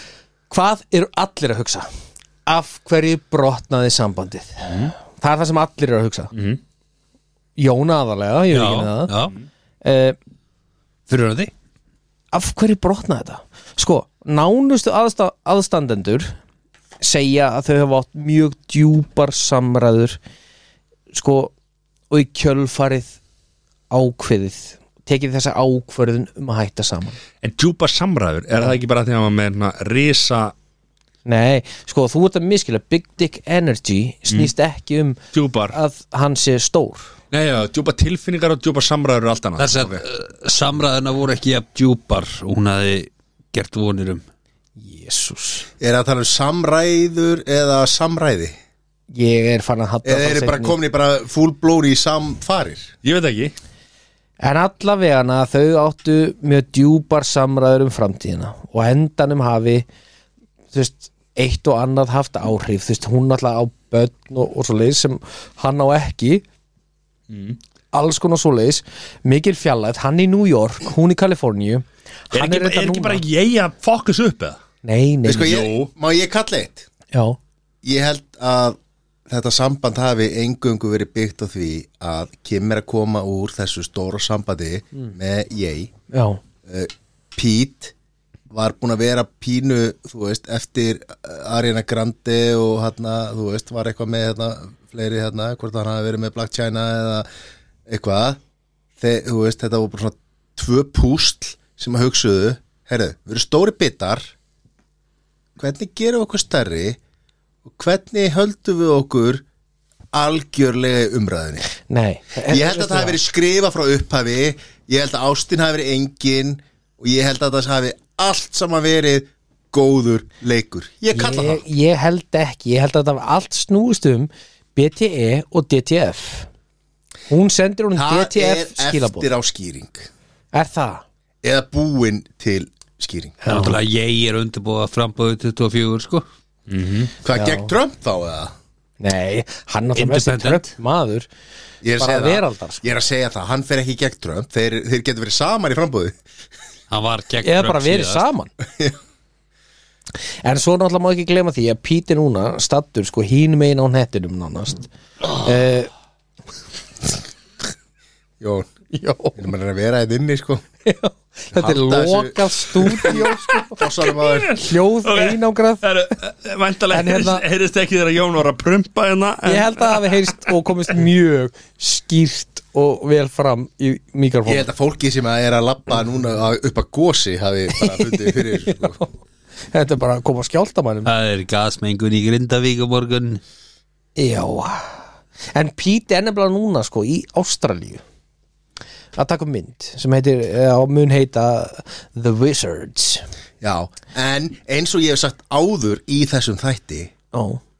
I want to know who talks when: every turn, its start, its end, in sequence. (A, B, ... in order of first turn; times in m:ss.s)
0:00.5-0:01.9 A
0:02.4-0:06.3 A
0:06.3-0:06.6 B
0:07.6-0:09.1 A
0:08.5-0:09.4 C
0:09.8-0:10.2 A
0:11.1-0:11.5 C
0:12.3-0:16.3 A
0:17.0-0:20.2 A
0:21.1-0:21.5 A
0:22.1-0:23.2 A
0:23.9-0:27.2 A
0:27.4-0:30.5 B
0:31.2-0:37.1 A
0:35.3-0:35.8 B
0:37.3-0:40.0 B
0:39.6-0:44.2 C
0:44.8-0:45.7 A
0:45.8-0:48.5 D
0:49.1-0:50.8 A
0:50.0-0:52.9 D
0:53.0-0:53.5 B
0:54.4-0:59.8 A
1:00.7-1:06.4 A
1:07.3-1:07.6 B
1:07.9-1:13.2 A
1:12.3-1:14.6 B
1:14.8-1:15.6 A
1:15.2-1:16.9 D
1:15.4-1:15.9 B
1:17.1-1:17.4 A
1:17.8-1:25.9 D
1:26.1-1:26.4 A
1:26.6-1:27.9 D
1:28.5-1:37.2 D
1:37.9-1:38.4 D
1:39.0-1:44.3 D
1:45.6-1:47.0 D
1:47.6-1:49.4 D
1:50.1-1:51.7 D
1:51.9-1:53.2 A
1:52.5-2:01.6 D
2:01.1-2:06.5 A
2:07.3-2:09.3 A
2:07.9-2:10.1 D
2:10.5-2:11.0 A
2:11.4-2:13.4 D
2:13.4-2:13.8 A
2:13.5-2:16.2 C
2:16.7-2:17.1 B
2:17.2-2:18.5 D
2:17.3-2:17.7 A
2:19.0-2:21.3 A
2:20.0-2:20.7 C
2:21.8-2:26.2 D
2:22.0-2:22.8 A
2:26.9-2:28.2 C
2:27.4-2:28.5 A
2:30.4-2:35.9 A
2:38.4-2:38.7 D
2:38.9-2:39.4 A
2:39.4-2:40.6 D
2:40.8-2:43.8 A
2:41.6-2:44.5 D
2:42.9-2:50.0 B
2:44.6-2:45.9 A
2:46.9-2:47.4 A
2:49.4-2:54.7 A
2:54.4-2:59.0 D
2:57.8-2:59.1 A
2:59.7-3:01.1 A
3:01.0-3:03.4 C
3:04.2-3:08.0 A
3:09.1-3:13.3 A
3:13.6-3:17.1 D
3:17.3-3:17.6 A